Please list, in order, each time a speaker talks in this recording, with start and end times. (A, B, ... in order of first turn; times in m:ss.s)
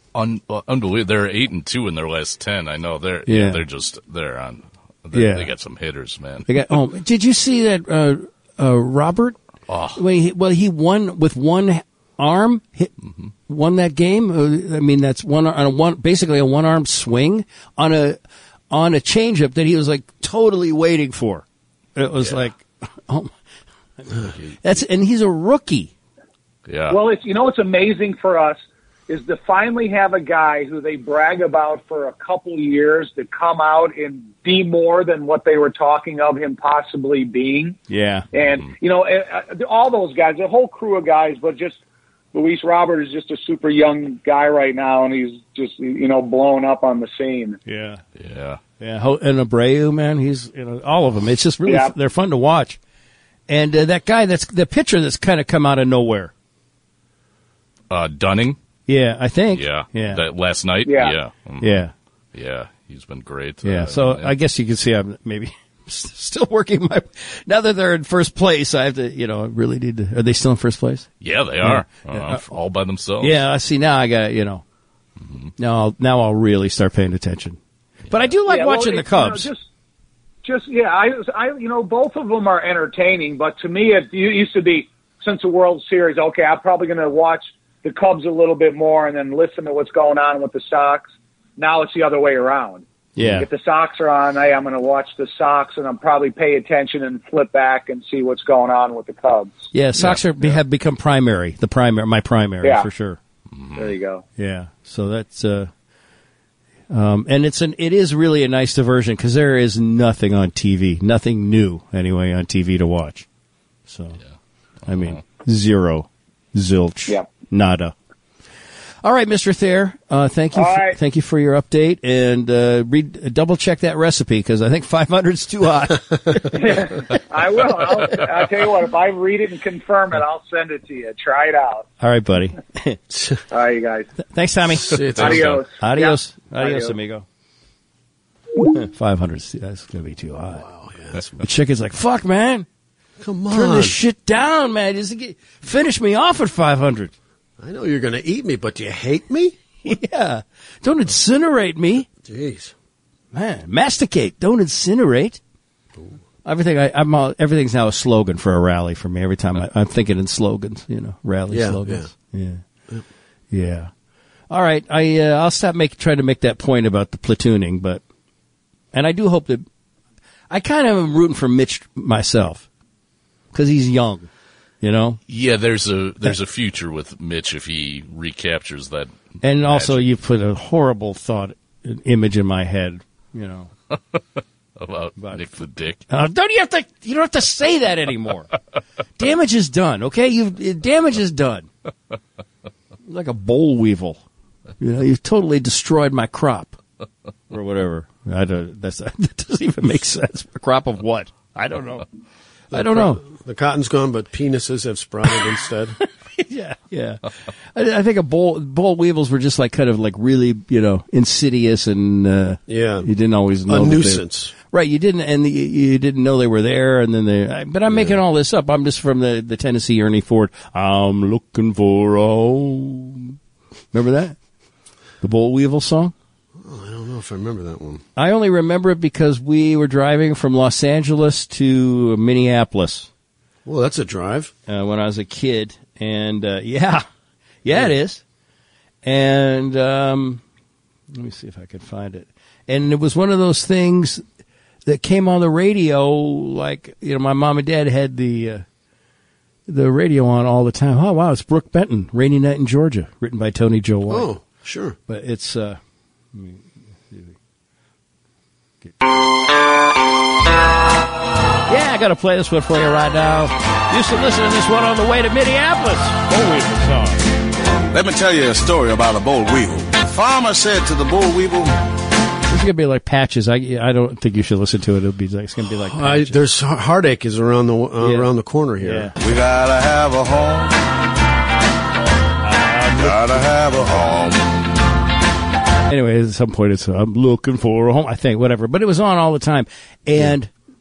0:00.1-0:06.5 A
0:03.3-0:03.6 B
0:05.1-0:05.5 B
0:06.5-0:09.4 B
0:09.7-0:10.0 A
0:10.0-0:12.9 B
0:13.5-0:18.2 B
0:18.7-0:21.4 B
0:22.0-0:23.3 B
0:24.1-0:25.9 B
0:26.7-0:27.0 A
0:26.9-0:37.8 C
0:37.9-0:38.3 B
0:38.3-0:41.8 C
0:42.3-0:47.6 C
0:47.7-0:48.0 B
0:48.2-0:48.6 A
0:48.8-0:52.8 B
0:51.7-0:51.9 C
0:53.5-0:56.3 B
0:57.9-0:58.6 A
0:58.9-1:00.2 B
0:59.5-1:01.8 A
1:00.8-1:01.2 C
1:01.6-1:01.9 B
1:02.3-1:04.3 A
1:03.6-1:11.1 B
1:11.2-1:13.4 A
1:11.6-1:12.5 B
1:13.2-1:14.6 B
1:15.3-1:15.5 A
1:15.6-1:17.6 B
1:18.1-1:19.5 B
1:18.5-1:19.6 C
1:20.4-1:32.8 C
1:33.2-1:33.5 B
1:33.4-1:39.7 C
1:39.7-1:43.2 B
1:40.0-1:40.6 A
1:42.6-1:42.9 C
1:43.5-1:43.9 A
1:43.7-1:44.2 C
1:44.4-1:45.7 B
1:46.9-1:53.3 B
1:53.9-1:54.2 B
1:54.9-1:58.0 B
1:59.0-2:06.8 B
2:00.6-2:01.0 C
2:06.5-2:11.9 C
2:12.0-2:13.0 B
2:13.1-2:13.4 D
2:13.5-2:14.1 C
2:14.2-2:15.2 B
2:14.7-2:15.6 D
2:15.2-2:15.6 A
2:15.2-2:17.0 C
2:15.8-2:17.2 B
2:18.6-2:20.6 B
2:20.6-2:21.2 D
2:21.3-2:22.7 B
2:23.2-2:24.0 D
2:23.5-2:27.1 B
2:27.6-2:29.6 D
2:29.8-2:32.1 B
2:32.2-2:32.7 D
2:33.3-2:35.4 B
2:36.4-2:42.6 B
2:41.5-2:42.1 D
2:43.5-2:43.9 B
2:44.5-2:48.0 B
2:48.9-2:49.6 B
2:50.5-2:52.7 B
2:53.5-2:54.3 B
2:54.8-2:55.2 B
2:55.3-2:59.1 A
2:59.4-3:03.7 B
2:59.6-3:00.0 A
3:04.8-3:06.0 A
3:05.2-3:05.4 B
3:06.1-3:08.5 B
3:09.2-3:11.7 B
3:13.1-3:14.2 B
3:14.8-3:16.8 B
3:17.5-3:22.0 B
3:22.7-3:23.2 B
3:22.7-3:26.0 D
3:26.4-3:43.4 B
3:32.7-3:33.1 D
3:33.7-3:34.5 D
3:37.9-3:38.2 D
3:43.9-3:44.4 B
3:45.2-3:46.1 B
3:46.6-3:48.0 D
3:48.2-3:53.1 B
3:53.6-3:54.5 D
3:54.7-3:57.0 B
3:57.6-3:58.2 B
3:59.0-4:00.4 B
4:01.1-4:04.2 B
4:04.8-4:08.6 B
4:09.7-4:14.3 B
4:14.1-4:15.0 D
4:15.1-4:15.8 B
4:16.3-4:17.4 B
4:21.7-4:27.2 B
4:27.9-4:31.8 E
4:32.5-4:36.4 B
4:35.8-4:39.1 D
4:38.0-4:38.3 B
4:38.8-4:39.1 B
4:39.2-4:40.8 E
4:42.4-4:43.2 B
4:42.9-4:44.9 E
4:45.9-4:50.5 B